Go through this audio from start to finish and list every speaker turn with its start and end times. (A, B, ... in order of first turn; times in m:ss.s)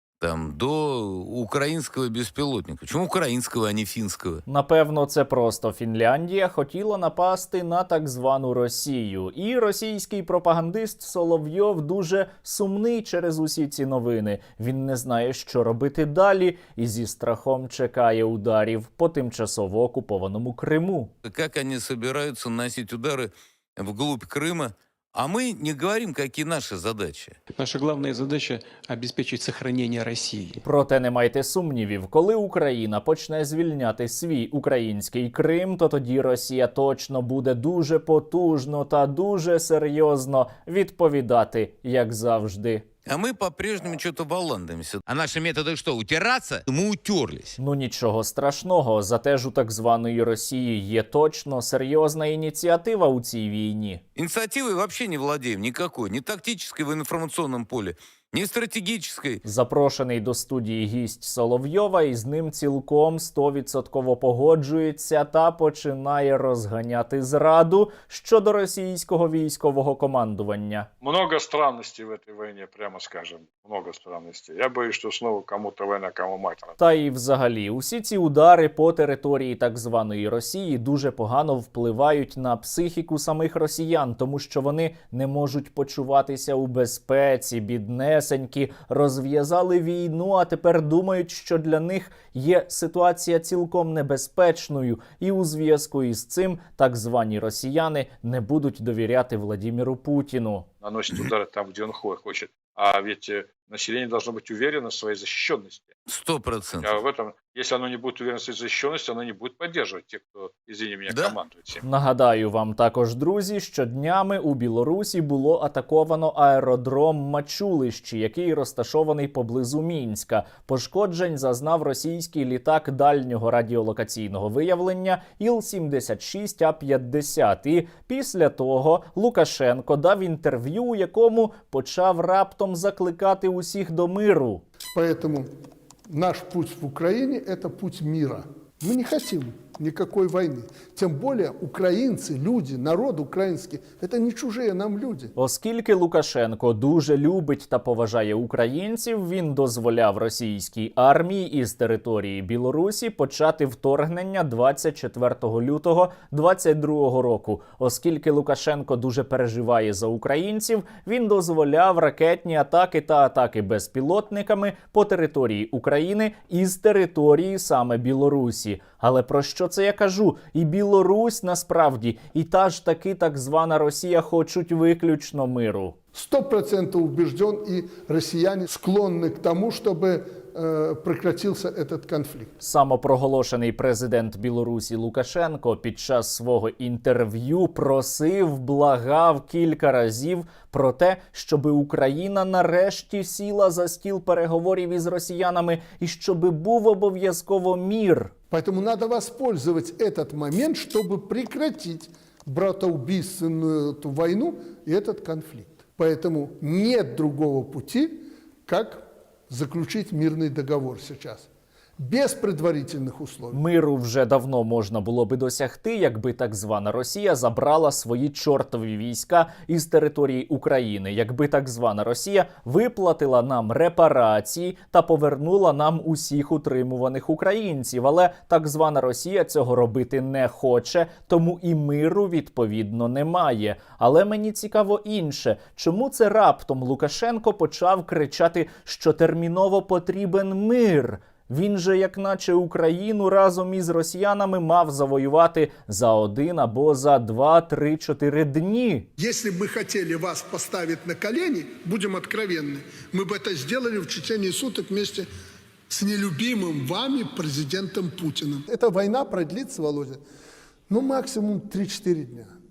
0:00.2-0:04.4 A
0:04.5-0:21.1 B
0:21.2-0:27.4 A
0:27.6-0:30.6 C
0:30.6-0:42.9 B
0:43.1-0:47.6 A
0:47.6-0:54.0 B
0:54.2-0:59.4 A
0:59.4-1:10.9 B
1:11.0-1:16.8 D
1:16.8-1:40.7 B
1:40.8-1:45.9 D
1:46.1-1:47.0 A
1:46.8-1:51.8 D
1:51.1-1:51.4 A
1:51.8-2:14.6 B
2:14.9-2:15.5 E
2:16.1-2:25.3 E
2:25.4-2:56.0 B
2:56.1-3:02.5 E
3:02.6-3:18.3 B
3:18.5-3:31.5 E
3:32.0-3:33.6 E
3:33.5-4:09.1 B
4:09.2-4:15.3 E
4:15.9-4:20.2 E
4:20.9-4:22.5 E